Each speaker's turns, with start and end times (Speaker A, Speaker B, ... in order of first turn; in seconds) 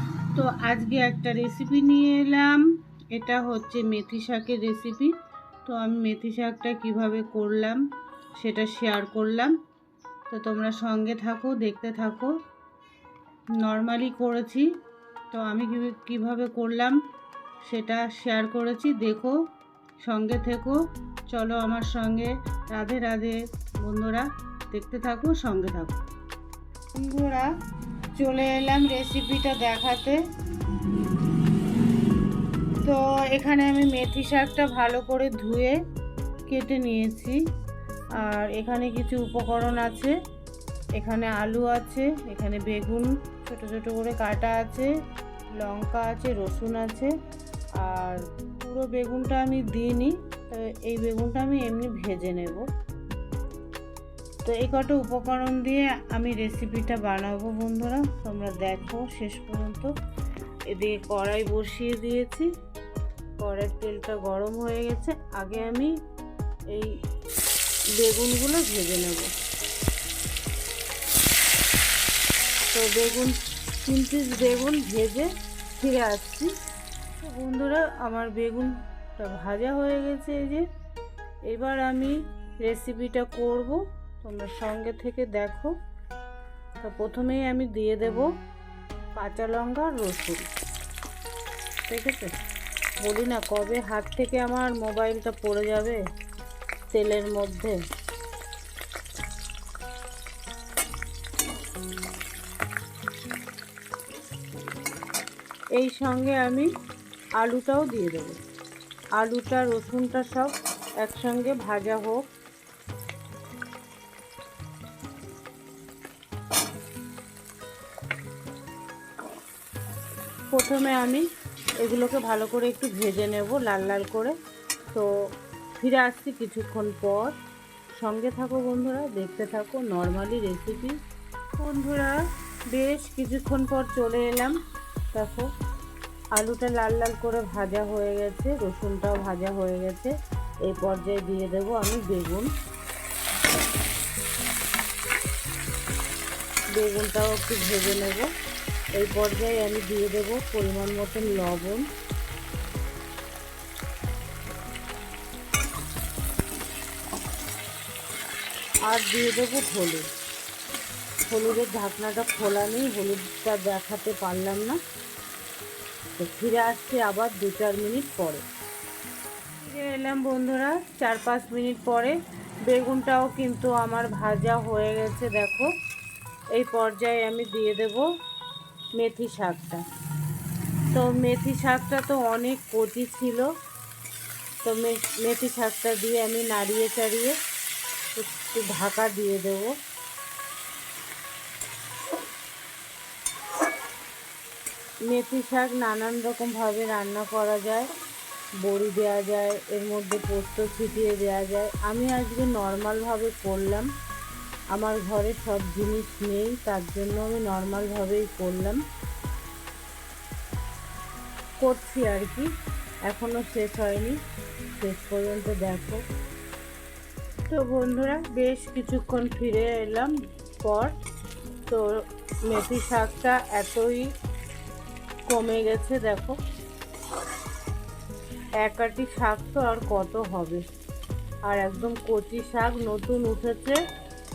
Speaker A: 0.3-5.1, 5.7-7.8, 8.4-9.6, 10.3-12.3, 13.6-14.7, 15.3-17.0, 17.6-19.4, 20.0-26.0, 26.9-27.5, 28.1-30.2, 32.8-35.8, 36.5-37.4, 38.2-40.1, 41.0-44.9, 45.6-47.1, 47.8-52.7, 54.4-59.9, 60.7-62.5, 63.4-65.9, 68.0-69.3, 72.7-76.5, 77.2-80.7, 81.5-85.7, 86.8-88.3, 89.2-90.5, 91.9-92.3, 93.0-96.0, 96.9-97.8, 105.8-106.7, 107.4-108.4, 109.2-112.3, 120.5-121.3, 121.8-124.3, 125.8-127.4, 128.0-131.0, 131.6-132.2, 132.7-134.6, 135.1-135.5, 136.3-142.5, 146.8-148.3, 149.0-151.8, 158.9-160.1, 161.3-164.8, 166.2-168.4, 169.6-172.2, 172.7-175.7, 176.5-178.1, 179.0-179.8, 180.9-183.5, 184.6-187.4, 188.2-189.7, 195.1-197.9, 198.6-203.9, 204.7-208.8, 211.6-212.5, 213.1-214.2, 214.8-216.0, 217.5-220.9, 221.7-224.1, 225.3-226.4, 228.6-230.6, 231.5-233.8